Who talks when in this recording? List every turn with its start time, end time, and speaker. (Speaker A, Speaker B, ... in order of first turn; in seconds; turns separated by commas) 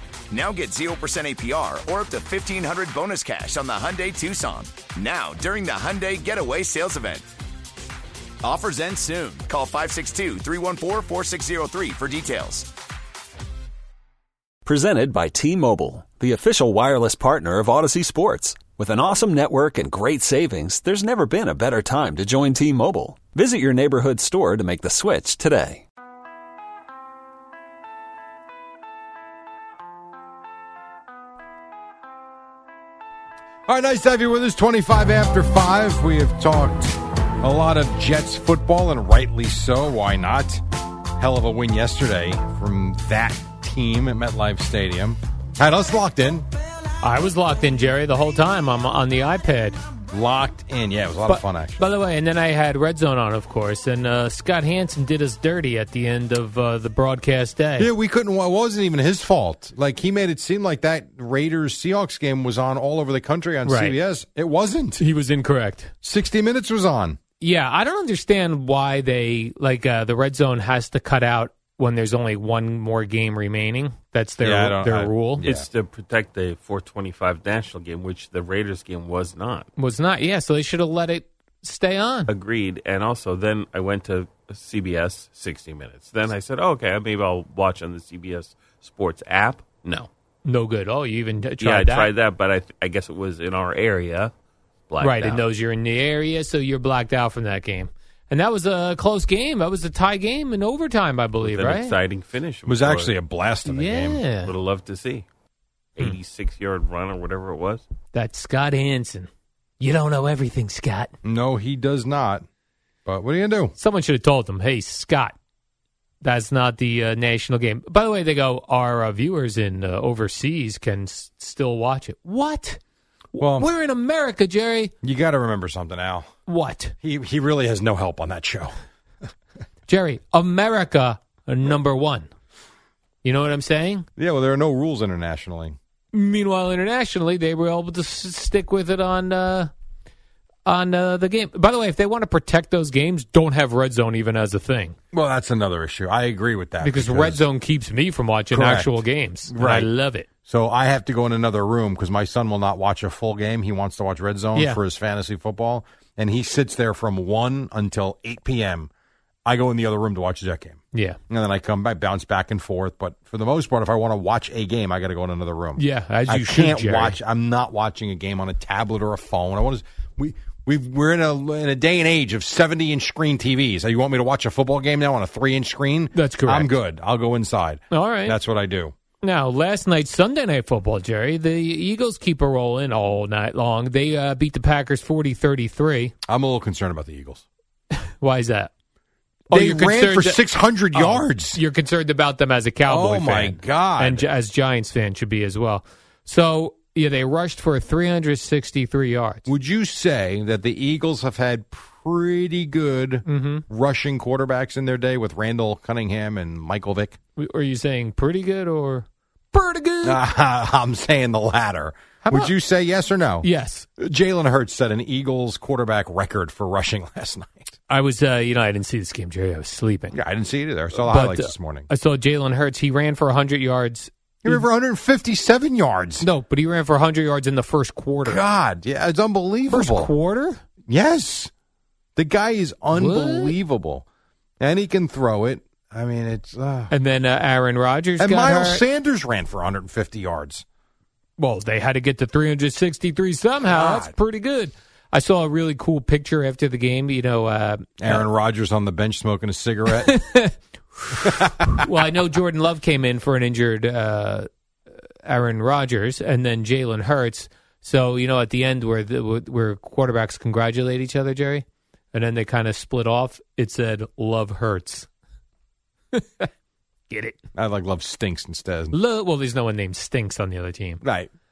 Speaker A: 0.3-7.3, Speaker A: 8.4-12.7, Speaker B: 14.6-25.8, Speaker C: 33.7-40.6, Speaker C: 41.2-46.5, Speaker D: 47.0-49.8, Speaker C: 50.1-51.8, Speaker D: 51.2-57.9, Speaker C: 57.8-65.0, Speaker D: 63.6-64.0, Speaker D: 65.0-65.9, Speaker C: 66.0-67.2, Speaker D: 67.4-75.4, Speaker C: 74.4-75.7, Speaker E: 75.4-79.7, Speaker D: 79.8-82.3, Speaker E: 82.3-90.1, Speaker D: 90.4-92.1, Speaker E: 91.6-94.3, Speaker E: 94.9-95.5, Speaker D: 95.0-102.0, Speaker E: 101.4-103.1, Speaker C: 102.7-104.2, Speaker D: 103.6-104.5, Speaker E: 104.4-105.2, Speaker E: 106.0-107.8, Speaker D: 108.1-109.3, Speaker D: 109.8-111.1, Speaker C: 111.2-112.4, Speaker C: 113.0-113.7, Speaker D: 113.8-115.3, Speaker D: 116.2-122.8, Speaker D: 123.3-124.9, Speaker C: 123.4-123.7, Speaker C: 125.0-126.3, Speaker D: 126.5-126.9, Speaker C: 127.0-128.7, Speaker D: 129.9-132.3, Speaker D: 133.2-134.1, Speaker C: 134.2-135.8, Speaker D: 136.1-139.7, Speaker D: 140.6-144.9, Speaker C: 145.1-147.4, Speaker D: 146.8-150.3, Speaker C: 148.5-149.9, Speaker C: 150.4-158.9, Speaker D: 154.5-154.8, Speaker C: 159.4-178.9, Speaker D: 160.9-161.2, Speaker D: 165.8-167.2, Speaker D: 176.1-176.7, Speaker D: 177.9-178.4, Speaker D: 179.2-186.1, Speaker C: 186.3-187.4, Speaker D: 188.0-188.7, Speaker D: 189.5-190.4, Speaker C: 189.5-191.6, Speaker D: 190.9-199.5, Speaker C: 192.8-194.2, Speaker C: 199.5-207.2, Speaker D: 203.2-203.6, Speaker D: 207.3-210.2, Speaker C: 210.0-217.8, Speaker D: 212.2-212.5, Speaker D: 213.4-213.8, Speaker D: 217.9-220.2, Speaker C: 220.1-221.9, Speaker D: 220.9-224.7, Speaker C: 224.4-226.3, Speaker D: 226.2-228.4, Speaker C: 228.2-230.1, Speaker D: 229.7-230.6, Speaker C: 230.9-231.5, Speaker C: 232.2-234.0, Speaker D: 232.9-233.6, Speaker C: 234.6-236.9, Speaker D: 236.9-238.8, Speaker C: 238.2-240.6, Speaker D: 241.4-248.2, Speaker C: 243.6-244.1, Speaker C: 248.0-250.2, Speaker D: 250.0-250.5, Speaker D: 251.1-254.5, Speaker C: 251.2-251.5, Speaker D: 255.2-265.1, Speaker D: 266.1-266.5, Speaker D: 267.1-267.4, Speaker C: 267.5-268.9, Speaker D: 268.9-271.0, Speaker C: 271.0-271.3